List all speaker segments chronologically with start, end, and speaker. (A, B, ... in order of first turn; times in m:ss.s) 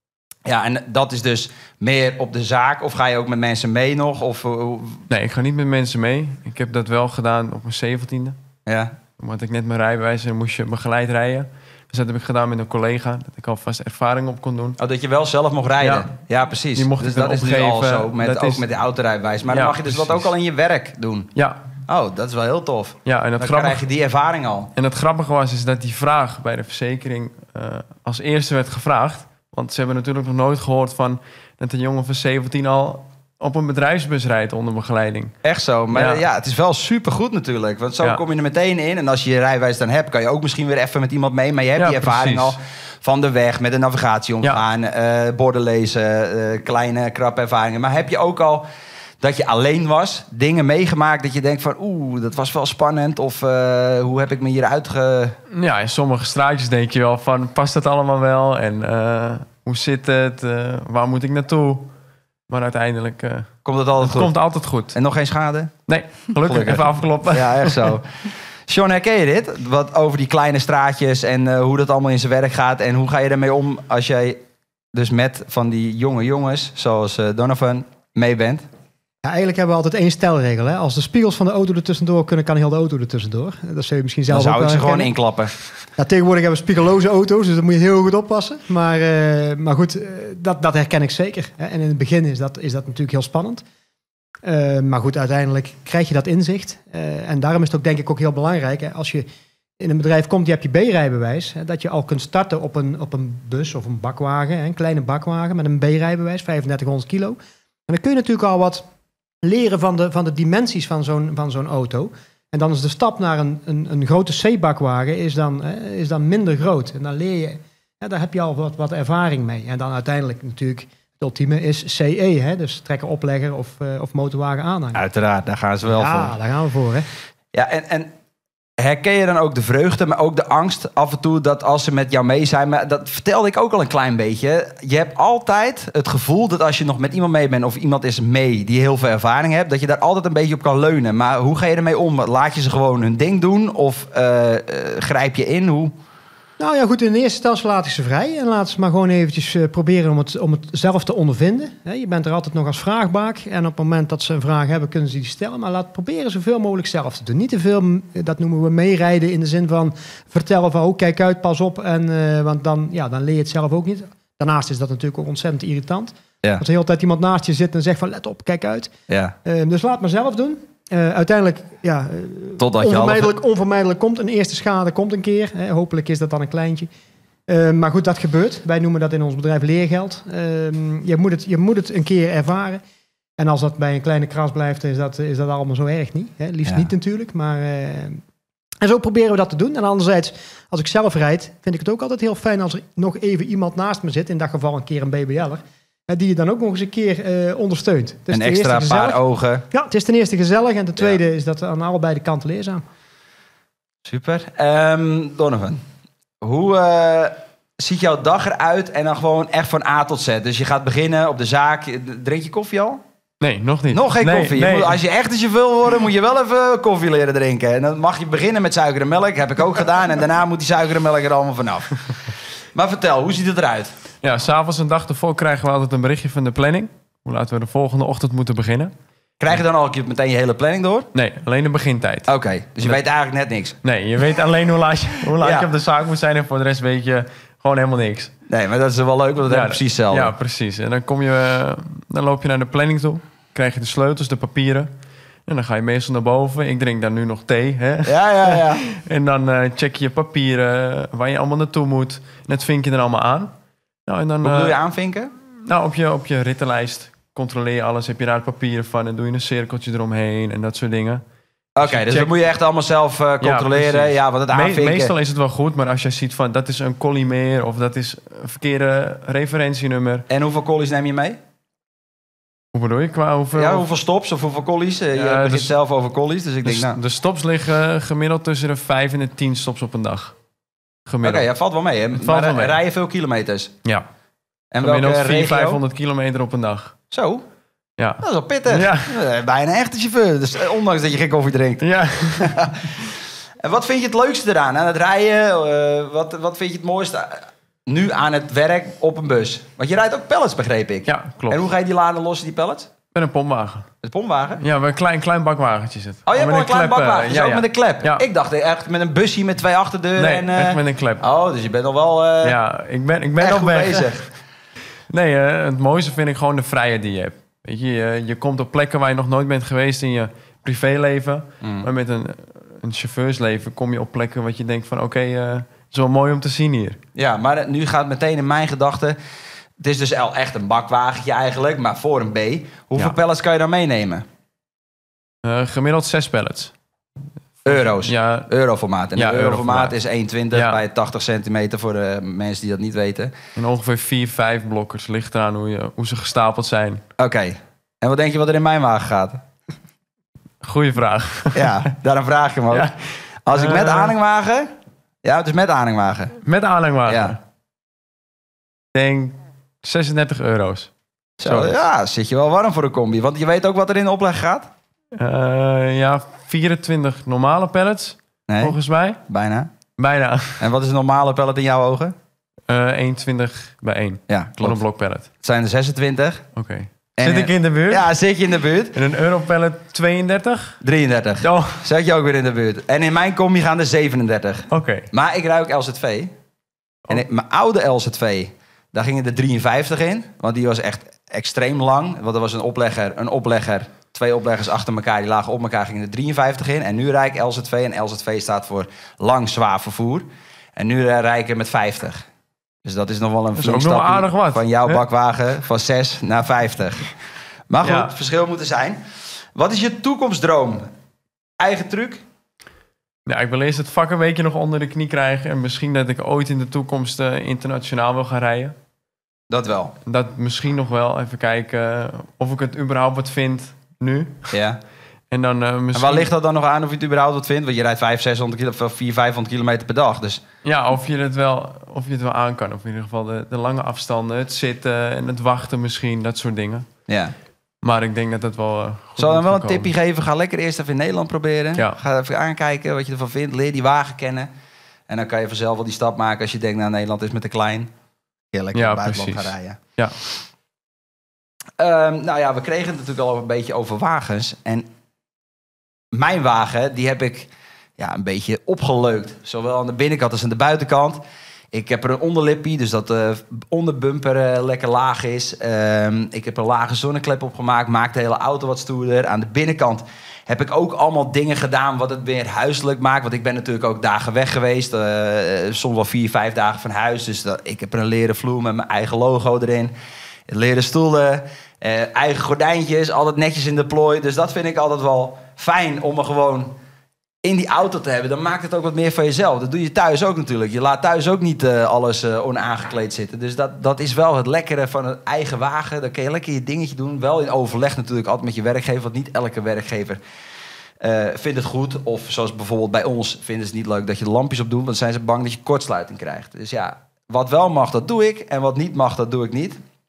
0:00.4-0:05.0 A
0:05.1-0:08.4 B
0:08.6-0:08.9 A
0:09.2-0:14.8 B
0:14.8-0:21.3 A
0:15.8-0:16.1 B
0:16.7-0:18.6 B
0:19.4-0:20.3 B
0:21.3-0:21.6 B
0:21.9-0:24.7 A
0:23.0-0:23.8 B
0:24.8-0:35.4 B
0:35.4-0:48.6 A
0:35.9-0:36.2 B
0:41.8-0:42.5 B
0:49.2-0:55.4 A
0:55.5-1:01.9 B
1:02.5-1:05.0 B
1:03.6-1:05.8 A
1:05.9-1:07.9 B
1:06.5-1:14.4 A
1:14.9-1:18.6 A
1:19.2-1:25.1 C
1:24.3-1:25.5 A
1:26.0-1:33.6 C
1:34.4-1:39.3 C
1:39.8-1:48.8 C
1:49.4-2:05.0 C
2:04.9-2:06.3 A
2:05.9-2:07.1 C
2:07.5-2:08.1 A
2:08.8-2:25.9 A
2:26.6-2:48.9 C
2:49.1-2:49.3 A
2:49.4-2:56.9 C
2:52.6-2:53.3 A
2:57.5-3:02.8 C
3:03.4-3:08.2 C
3:08.8-3:19.2 C
3:18.3-3:19.6 A
3:19.7-3:22.8 C
3:24.0-3:25.8 A
3:26.4-3:33.0 A
3:33.4-3:35.0 B
3:33.9-3:42.1 A
3:42.7-3:43.9 A
3:44.2-3:48.9 B
3:49.4-3:51.1 A
3:51.1-3:53.0 B
3:52.3-3:53.8 A
3:53.8-3:58.3 B
3:55.4-3:55.7 A
3:58.5-4:00.3 A
3:59.5-4:04.9 B
4:05.4-4:13.5 B
4:08.0-4:08.8 A
4:14.0-4:14.8 B
4:14.4-4:15.3 A
4:15.6-4:21.2 B
4:21.8-4:25.1 A
4:21.8-4:22.3 B
4:23.4-4:30.2 B
4:30.3-4:31.4 A
4:32.7-4:33.9 B
4:33.5-4:37.0 A
4:35.1-4:35.7 B
4:36.6-4:40.3 B
4:41.0-4:41.4 B
4:41.2-4:43.7 A
4:42.2-4:42.8 B
4:44.7-4:45.8 A
4:44.8-4:47.0 B
4:47.1-4:47.4 A
4:48.0-4:49.1 B
4:48.2-4:52.8 A
4:51.8-4:52.7 B
4:53.6-5:02.9 A
5:01.1-5:01.6 B
5:03.1-5:03.9 B
5:04.0-5:04.6 A
5:04.6-5:08.2 B
5:06.2-5:12.6 A
5:10.2-5:11.2 B
5:12.4-5:14.2 B
5:13.4-5:14.3 A
5:15.1-5:27.0 B
5:21.6-5:21.9 A
5:27.2-5:29.2 A
5:29.8-5:34.2 A
5:35.4-5:36.7 B
5:37.6-5:38.5 B
5:37.6-5:43.3 A
5:39.2-5:40.0 B
5:40.5-5:40.8 B
5:43.6-5:47.0 B
5:47.2-5:49.4 A
5:50.6-5:51.8 B
5:51.5-5:52.9 A
5:52.7-5:54.1 B
5:53.4-5:54.7 A
5:55.2-5:56.4 A
5:56.4-5:57.4 B
5:57.1-5:57.4 A
5:58.9-6:01.8 B
6:01.4-6:04.7 A
6:05.2-6:09.2 B
6:08.5-6:08.7 A
6:09.3-6:09.7 A
6:10.0-6:10.7 B
6:10.6-6:12.1 A
6:12.7-6:15.3 B
6:14.3-6:14.8 A
6:15.4-6:16.5 A
6:16.5-6:18.1 B
6:17.2-6:18.9 A
6:18.9-6:20.8 B
6:20.8-6:26.3 A
6:21.4-6:21.8 B
6:24.7-6:25.1 B
6:27.1-6:42.2 A
6:42.8-6:47.1 A
6:43.6-6:45.0 B
6:47.7-6:49.0 A
6:47.8-6:48.1 B
6:49.5-6:50.8 A
6:51.6-6:52.2 A
6:53.2-6:58.7 B
6:59.5-6:59.9 A
7:00.0-7:04.5 B
7:04.5-7:04.8 A
7:05.3-7:06.3 B
7:05.9-7:10.4 A
7:10.6-7:16.9 B
7:17.1-7:17.3 A
7:17.8-7:19.9 B
7:19.2-7:24.5 A
7:25.1-7:27.9 A
7:28.5-7:29.8 A
7:28.7-7:30.2 B
7:31.8-7:34.8 A
7:36.1-7:41.2 A
7:41.7-7:59.9 A
8:00.5-8:06.7 A
8:07.4-8:20.2 A
8:21.0-8:29.8 A